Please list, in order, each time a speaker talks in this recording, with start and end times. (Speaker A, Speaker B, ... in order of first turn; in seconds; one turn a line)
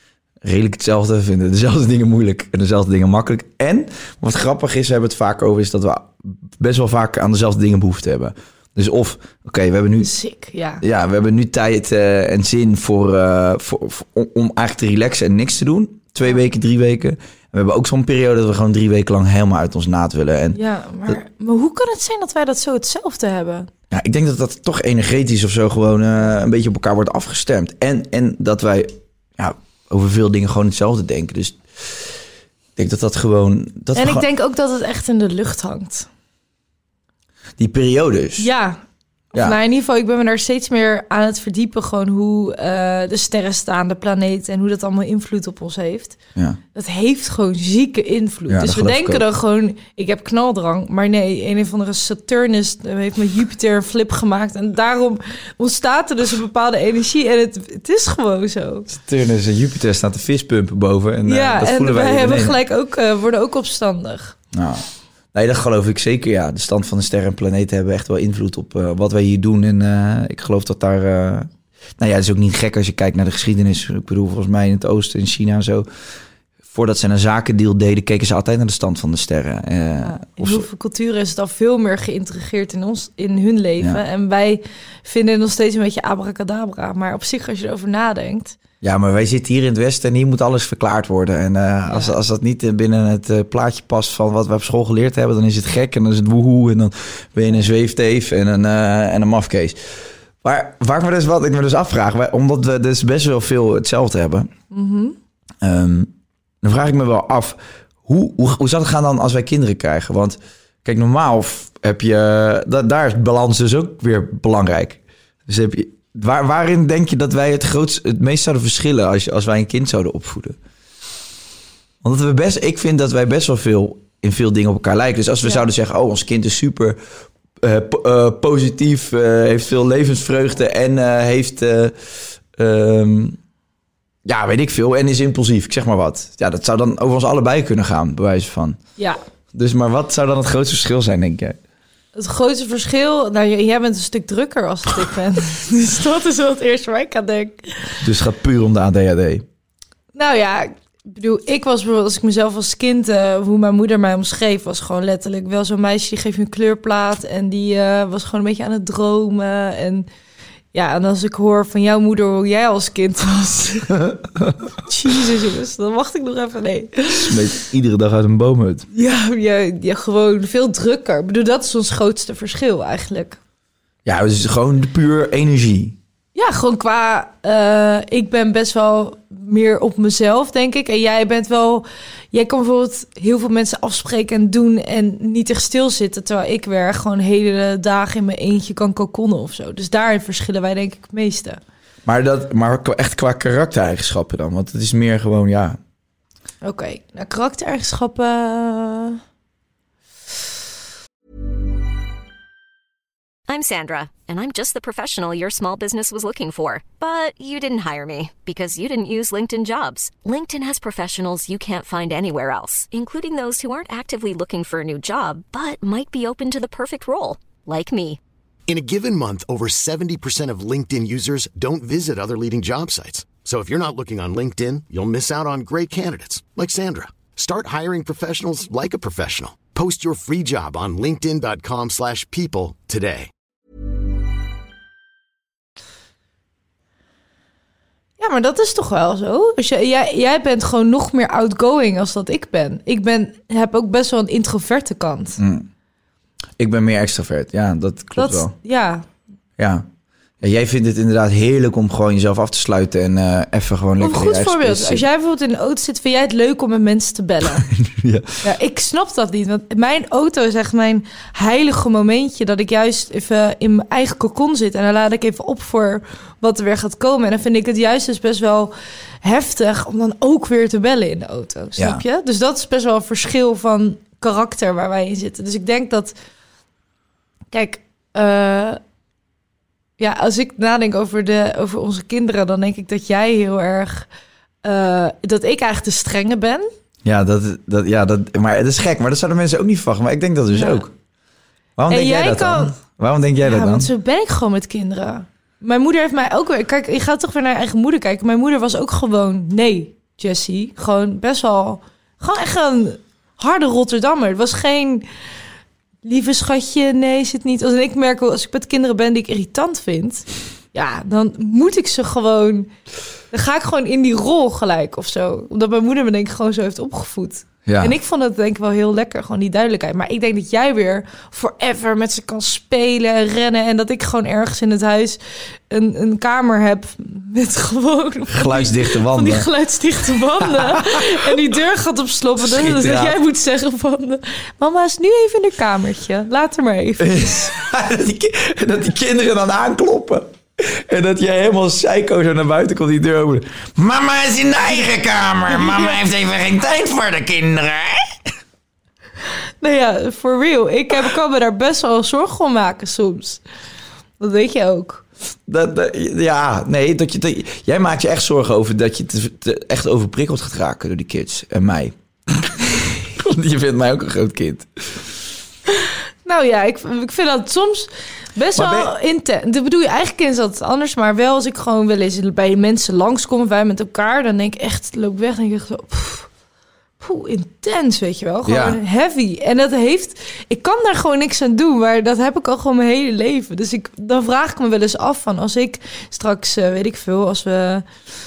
Speaker A: 0.4-10.1
Speaker B: 10.0-10.8
Speaker A: 10.8-21.2
Speaker B: 20.5-23.7
Speaker A: 23.9-32.1
Speaker A: 32.8-34.2
Speaker B: 34.0-36.1
Speaker A: 37.6-38.5
Speaker B: 38.4-38.8
Speaker A: 39.3-39.6
Speaker B: 39.3-46.2
Speaker B: 46.7-58.9
Speaker A: 48.5-49.2
Speaker A: 58.9-62.6
Speaker B: 61.3-64.4
Speaker A: 64.5-75.9
Speaker A: 76.7-80.7
Speaker B: 80.0-88.6
Speaker A: 88.8-99.9
Speaker B: 91.9-92.2
Speaker A: 100.4-104.5
Speaker B: 104.7-105.2
Speaker A: 105.6-120.6
Speaker A: 122.0-127.0
Speaker A: 127.6-132.0
Speaker A: 132.5-133.4
Speaker A: 134.3-138.8
Speaker A: 139.5-141.6
Speaker B: 142.2-148.0
Speaker A: 148.0-149.4
Speaker B: 150.1-160.1
Speaker B: 160.7-163.9
Speaker A: 164.0-164.5
Speaker B: 164.8-167.3
Speaker A: 167.1-168.9
Speaker B: 168.9-173.4
Speaker A: 174.1-176.0
Speaker B: 176.3-191.6
Speaker A: 192.1-195.8
Speaker B: 196.6-199.2
Speaker C: 203.5-218.2
Speaker D: 218.7-233.3
Speaker B: 238.2-245.4
Speaker A: 245.4-245.7
Speaker A: 246.6-248.5
Speaker B: 248.2-249.1
Speaker A: 249.6-249.9
Speaker A: 250.4-255.1
Speaker B: 254.0-257.7
Speaker A: 257.7-258.4
Speaker B: 258.4-276.1
Speaker A: 271.8-272.0
Speaker B: 277.5-278.8
Speaker B: 280.0-284.1
Speaker B: 284.6-286.7
Speaker A: 287.0-290.9
Speaker B: 290.5-290.8
Speaker A: 291.8-293.9
Speaker B: 291.9-292.8
Speaker B: 293.4-305.1
Speaker B: 306.0-312.7
Speaker B: 313.3-325.2
Speaker A: 317.7-317.9
Speaker B: 325.7-337.5
Speaker A: 328.3-329.5
Speaker A: 330.5-331.3
Speaker A: 332.4-333.2
Speaker A: 337.0-348.3
Speaker B: 345.5-346.0
Speaker B: 349.6-353.4
Speaker B: 354.2-355.1
Speaker A: 355.5-365.1
Speaker B: 365.8-376.3
Speaker A: 368.6-368.9
Speaker B: 377.0-387.9
Speaker A: 378.4-378.8